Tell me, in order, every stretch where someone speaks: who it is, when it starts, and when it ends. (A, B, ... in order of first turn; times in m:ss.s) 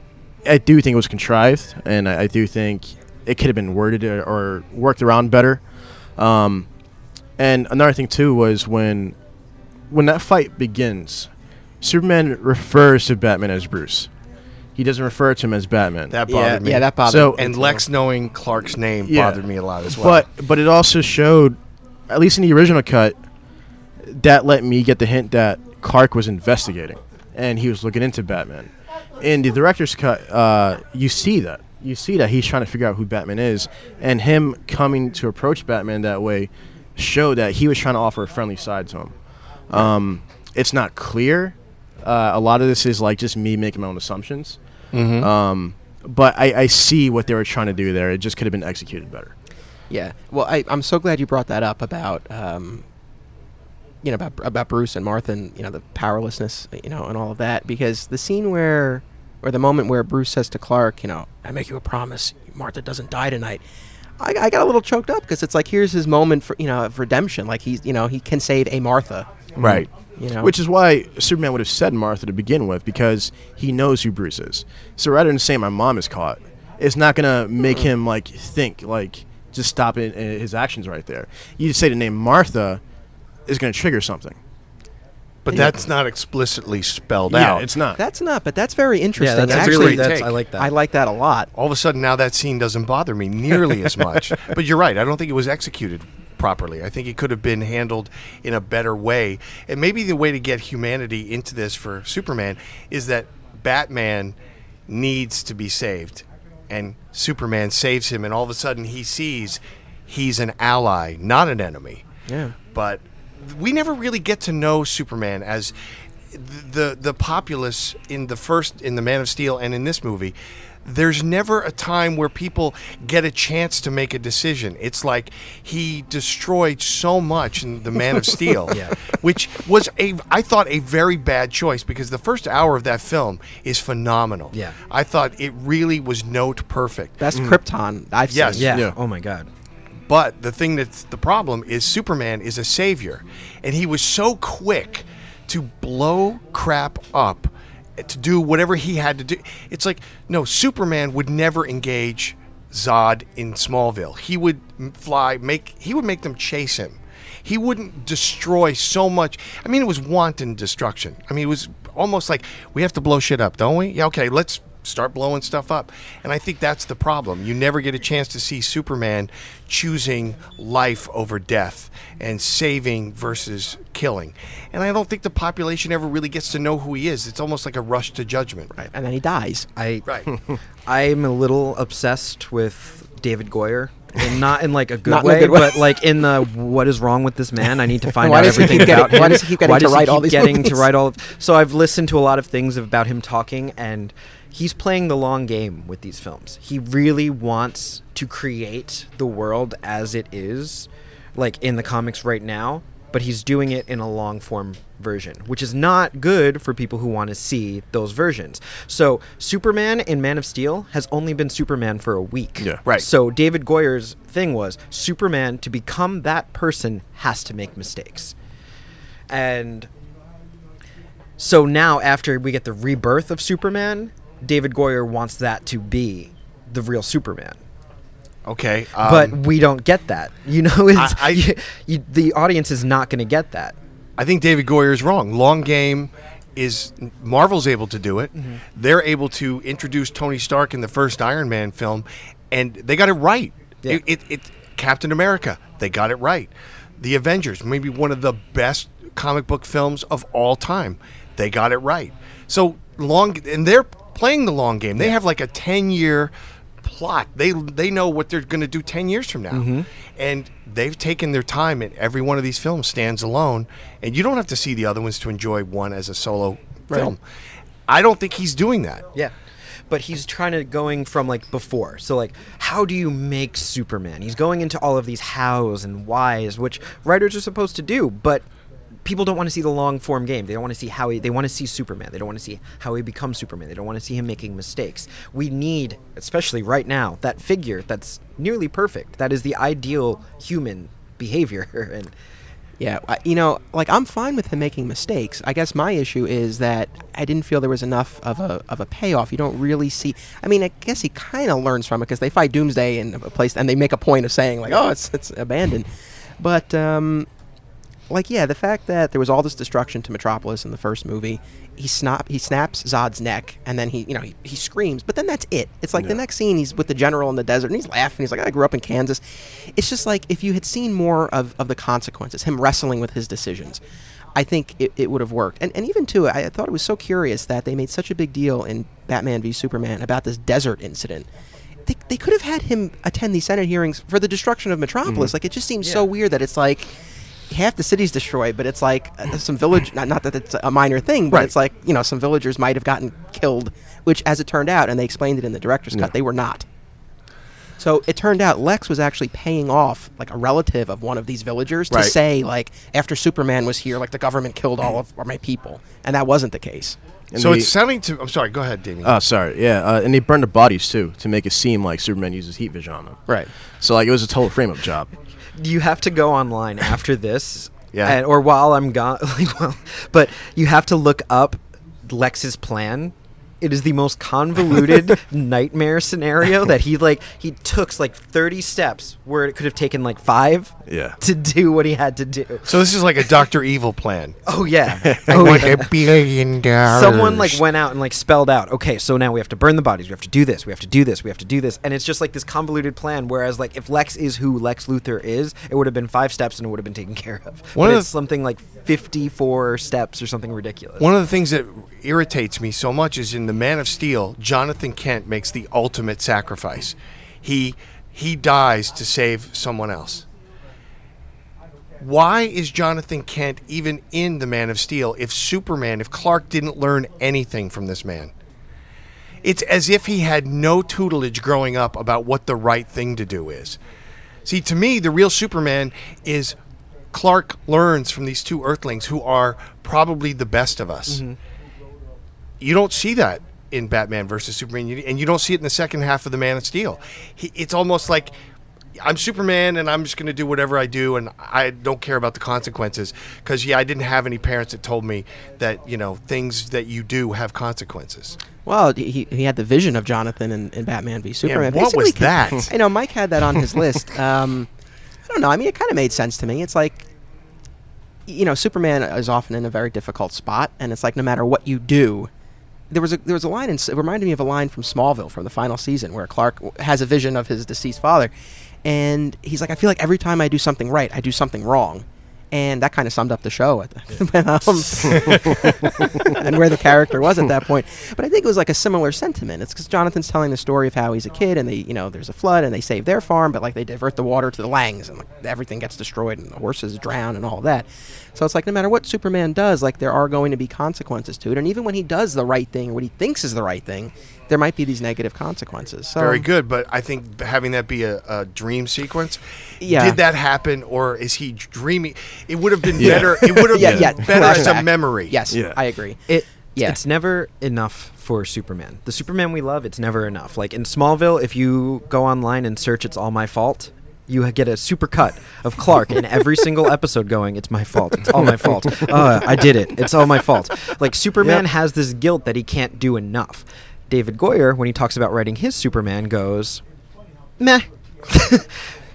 0:00.4-0:09.2 A
0:09.9-0:14.2 A
0:14.7-0:17.4 A
0:16.1-0:20.2 B
0:16.3-0:17.8 C
0:19.0-0:49.3 A
0:44.9-0:45.3 B
0:49.9-0:52.8 C
0:54.0-1:03.6 C
1:04.2-1:09.3 C
1:09.6-1:22.8 A
1:09.6-1:09.9 B
1:10.2-1:10.5 C
1:23.4-1:24.4 A
1:25.4-1:27.7 B
1:27.3-1:28.0 A
1:28.0-1:31.5 C
1:29.2-1:30.7 D
1:29.5-1:30.3 A
1:31.5-1:44.4 B
1:44.9-1:52.0 B
1:52.3-1:52.5 C
1:52.7-1:55.7 B
1:56.3-2:17.2 B
2:08.7-2:09.0 D
2:17.2-2:18.7 C
2:17.3-2:17.6 A
2:18.3-2:18.8 B
2:18.6-2:19.5 D
2:18.7-2:18.9 A
2:20.1-2:58.7 B
2:58.7-2:59.7 C
2:59.8-3:38.3 D
3:05.1-3:06.0 C
3:08.2-3:10.8 C
3:39.3-3:39.9 D
3:41.4-3:47.6 D
3:48.4-3:49.4 B
3:49.0-3:53.8 D
3:50.9-3:51.5 B
3:54.2-4:27.2 B
3:58.4-3:58.6 D
4:19.5-4:19.9 D
4:27.9-4:29.0 B
4:29.1-4:38.4 D
4:39.0-4:52.1 D
4:52.8-5:07.3 C
5:08.1-5:23.8 C
5:24.3-5:31.3 C
5:31.8-5:36.9 C
5:37.5-5:46.6 C
5:47.8-5:57.0 C
5:57.3-5:57.7 A
5:57.3-5:59.2 B
5:59.0-6:05.1 A
6:05.6-6:22.9 D
6:07.9-6:08.2 B
6:20.9-6:21.2 A
6:22.6-6:24.4 B
6:24.4-6:25.9 D
6:25.0-6:25.6 A
6:25.1-6:27.6 B
6:26.9-6:41.1 D
6:37.8-6:38.1 B
6:41.0-6:50.2 B
6:52.0-6:58.3 B
6:59.4-7:03.8 B
7:04.4-7:06.6 B
7:07.1-7:11.2 B
7:12.6-7:18.3 B
7:19.0-7:28.4 B
7:28.6-7:34.7 C
7:31.4-7:32.7 B
7:35.3-7:37.0 C
7:38.3-7:42.3 C
7:42.9-7:48.3 C
7:48.8-8:16.4 C
8:16.2-8:25.4 B
8:19.8-8:20.2 C
8:23.0-8:24.1 A
8:23.7-8:27.0 C
8:25.5-8:25.8 A
8:26.3-8:46.8 D
8:39.0-8:39.5 A
8:47.6-8:48.9 D